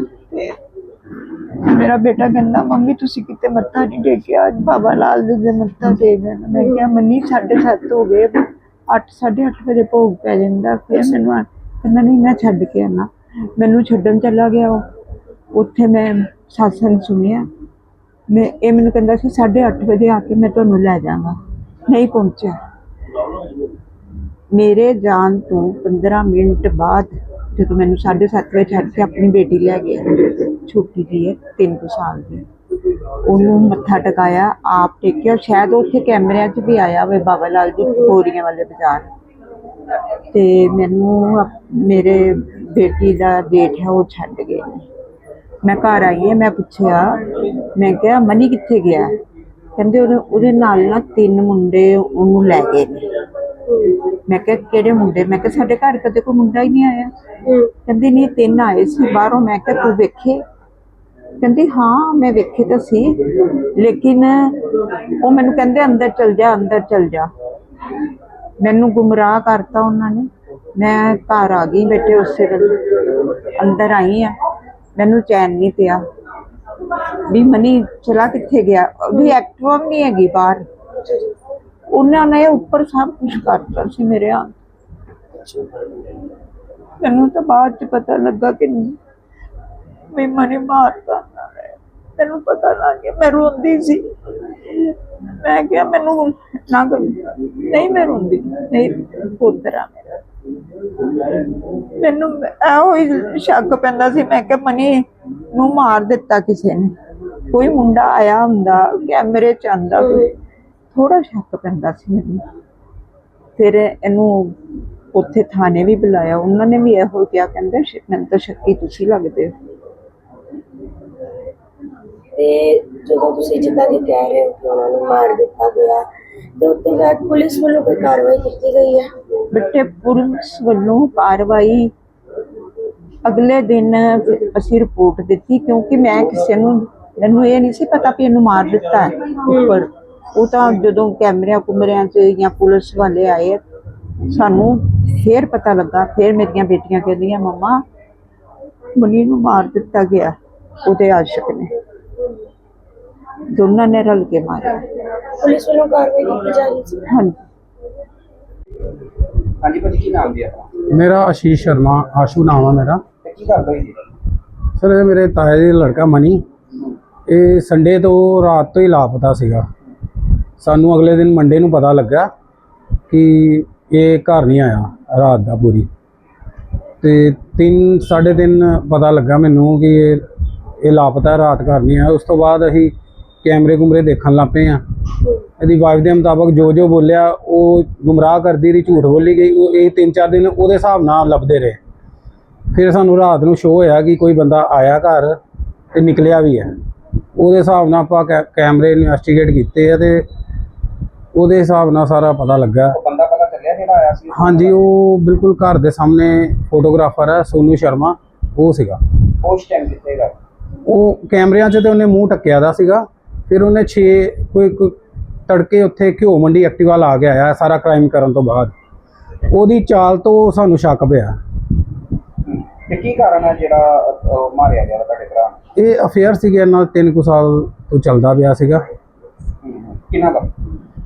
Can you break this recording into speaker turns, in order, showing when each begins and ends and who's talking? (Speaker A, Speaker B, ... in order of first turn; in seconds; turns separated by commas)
Speaker A: 1.7-14.8, Speaker B: 6.5-6.8, Speaker A: 15.5-17.4, Speaker A: 18.3-21.4, Speaker A: 21.9-22.5, Speaker A: 24.5-32.4, Speaker A: 33.2-39.1, Speaker B: 37.8-38.1, Speaker A: 40.3-44.8, Speaker A: 45.6-47.2, Speaker A: 47.7-49.1, Speaker A: 49.8-53.0, Speaker B: 53.7-54.0, Speaker A: 54.3-57.1, Speaker B: 57.5-57.7, Speaker A: 57.9-60.4, Speaker A: 61.4-63.1, Speaker A: 63.8-64.5, Speaker A: 65.2-67.3, Speaker A: 68.6-74.3, Speaker A: 75.0-76.0, Speaker A: 77.3-80.6, Speaker B: 81.0-81.3, Speaker A: 81.9-84.6, Speaker B: 85.3-85.7, Speaker A: 87.0-89.0, Speaker A: 90.1-94.0, Speaker A: 95.4-100.1, Speaker A: 102.0-106.9, Speaker A: 107.5-110.3, Speaker B: 110.0-110.3, Speaker A: 110.9-112.4, Speaker A: 113.6-114.5, Speaker A: 115.1-119.5, Speaker B: 122.3-126.0, Speaker B: 126.6-129.1, Speaker A: 129.5-131.9, Speaker A: 133.2-143.6, Speaker B: 139.5-139.8, Speaker A: 144.2-147.8, Speaker A: 148.9-151.7, Speaker A: 153.6-154.8, Speaker B: 155.2-157.1, Speaker A: 157.1-157.4, Speaker C: 159.6-160.7, Speaker D: 160.9-163.0, Speaker C: 163.2-164.0, Speaker D: 164.8-166.4, Speaker D: 167.3-169.7, Speaker D: 170.6-172.3, Speaker D: 173.1-175.9, Speaker D: 177.0-180.2, Speaker D: 180.8-182.9, Speaker D: 183.4-184.8, Speaker D: 185.6-191.8, Speaker D: 192.7-195.4, Speaker D: 195.9-196.7, Speaker D: 197.4-200.2, Speaker D: 201.3-202.9, Speaker C: 202.9-204.8, Speaker D: 204.3-209.0, Speaker C: 209.4-210.3, Speaker D: 210.9-214.9, Speaker D: 215.5-218.7, Speaker D: 219.5-221.3, Speaker C: 222.4-225.6, Speaker D: 225.8-228.8, Speaker C: 229.6-230.5